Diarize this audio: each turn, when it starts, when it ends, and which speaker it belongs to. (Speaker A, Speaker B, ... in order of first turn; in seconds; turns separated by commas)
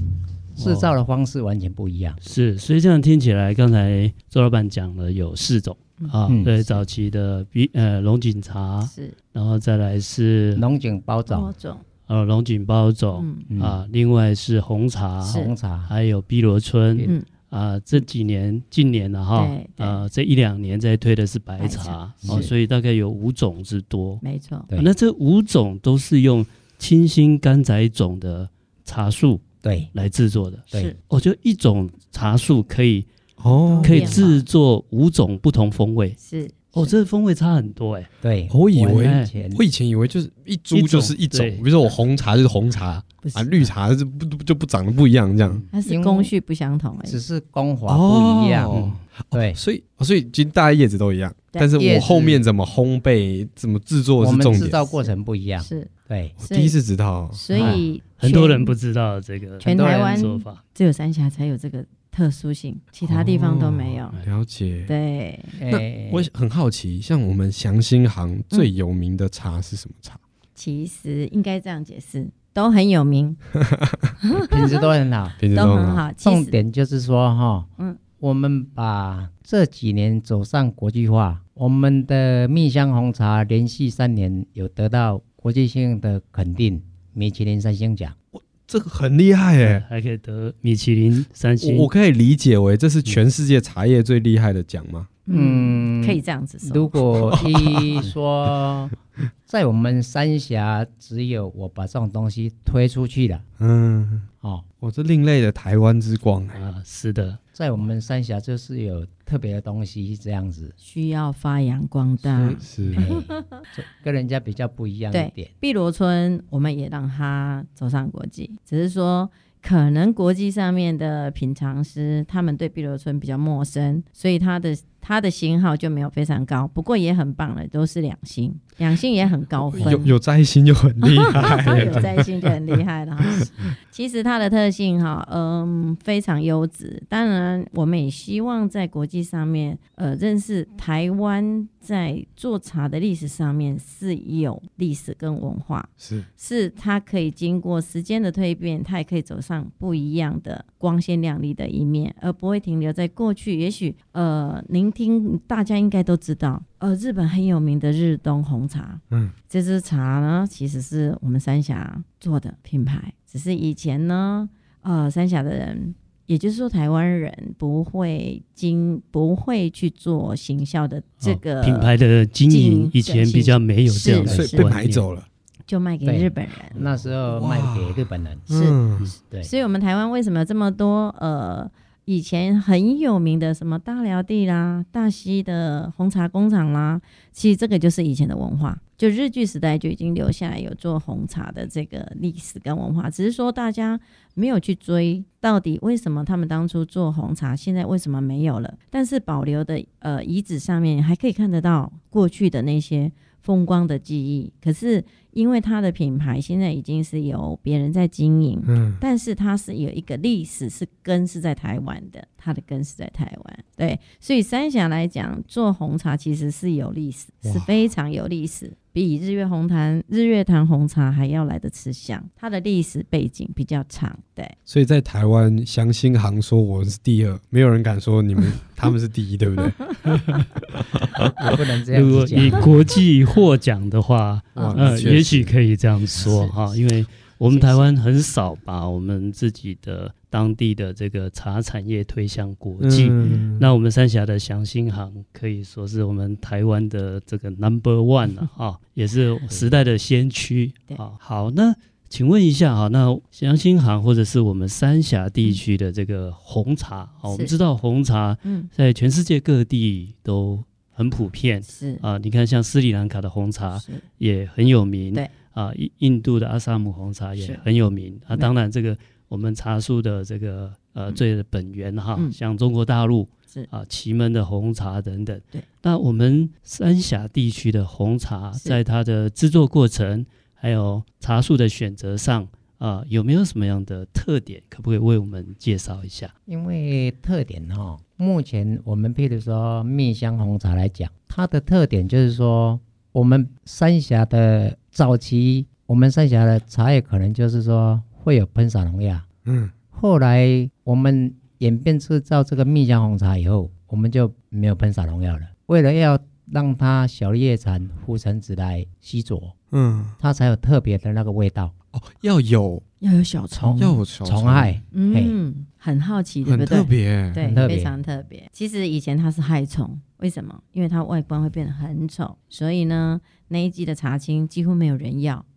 Speaker A: 0.5-2.2, Speaker B: 0.6-0.9, Speaker B: 2.2-10.6, Speaker A: 6.3-6.5, Speaker C: 8.8-9.2, Speaker A: 10.6-11.5, Speaker C: 11.3-11.8, Speaker B: 12.1-24.2, Speaker C: 13.2-13.5, Speaker A: 13.5-13.8, Speaker A: 15.3-15.9, Speaker C: 15.3-15.5, Speaker C: 19.4-20.1, Speaker C: 21.6-22.5, Speaker A: 22.2-22.5, Speaker C: 24.2-24.7, Speaker B: 24.8-33.1, Speaker A: 29.6-29.9, Speaker D: 33.4-34.3, Speaker C: 33.7-34.4, Speaker B: 33.8-36.2, Speaker C: 36.2-36.9, Speaker B: 36.7-38.1, Speaker A: 38.2-39.6, Speaker D: 38.5-45.6, Speaker B: 38.9-39.3, Speaker B: 40.7-41.7, Speaker C: 43.2-43.7, Speaker B: 45.5-45.7, Speaker C: 45.7-47.2, Speaker A: 45.8-46.3, Speaker A: 47.0-48.8, Speaker D: 47.9-54.8, Speaker B: 48.7-49.0, Speaker A: 49.3-49.6, Speaker A: 51.8-52.5, Speaker A: 54.2-56.4, Speaker C: 54.6-56.7, Speaker D: 56.4-57.8, Speaker C: 57.3-58.7, Speaker A: 57.5-57.8, Speaker B: 57.6-60.6, Speaker A: 59.6-60.3, Speaker C: 59.6-64.2, Speaker D: 63.0-64.9, Speaker C: 64.9-65.6, Speaker A: 65.6-66.3, Speaker D: 65.7-70.2, Speaker C: 70.6-73.4, Speaker D: 73.6-74.1, Speaker C: 74.3-74.9, Speaker A: 74.4-75.4, Speaker D: 75.4-76.0, Speaker C: 75.5-76.6, Speaker A: 76.2-77.7, Speaker A: 78.2-88.2, Speaker D: 88.3-89.8, Speaker B: 89.6-91.9, Speaker D: 91.6-95.1, Speaker C: 95.3-97.0, Speaker A: 95.3-98.9, Speaker D: 97.1-98.1, Speaker A: 99.5-103.4, Speaker D: 103.6-104.3, Speaker D: 104.8-106.6, Speaker B: 106.5-107.4, Speaker A: 107.5-110.8, Speaker C: 110.8-113.6, Speaker D: 112.3-113.1, Speaker A: 112.9-115.5, Speaker C: 115.1-130.2, Speaker D: 129.7-133.7, Speaker C: 131.0-171.9, Speaker D: 146.0-146.3, Speaker B: 171.2-175.1, Speaker C: 172.5-174.7, Speaker A: 174.2-174.5, Speaker D: 174.2-175.3, Speaker C: 175.7-176.8, Speaker A: 176.0-178.4, Speaker D: 176.7-179.1, Speaker C: 178.5-178.8, Speaker C: 179.4-224.6, Speaker D: 208.7-209.0, Speaker D: 217.4-217.7, Speaker D: 224.7-231.2, Speaker A: 231.4-232.7, Speaker B: 231.9-286.3, Speaker C: 234.6-235.0, Speaker D: 234.6-235.6, Speaker C: 236.2-236.7, Speaker C: 237.5-237.9, Speaker D: 242.8-243.7, Speaker C: 257.3-257.5, Speaker C: 258.4-258.7, Speaker C: 261.7-262.0, Speaker C: 263.7-264.1, Speaker C: 267.4-267.6, Speaker A: 286.5-299.2, Speaker D: 299.5-299.7, Speaker A: 299.9-309.6, Speaker D: 309.7-310.2, Speaker A: 310.2-311.7, Speaker D: 311.9-312.8, Speaker C: 313.0-314.0, Speaker A: 313.6-315.4, Speaker D: 313.8-314.7, Speaker C: 314.9-325.5, Speaker D: 316.4-317.7, Speaker A: 317.4-317.9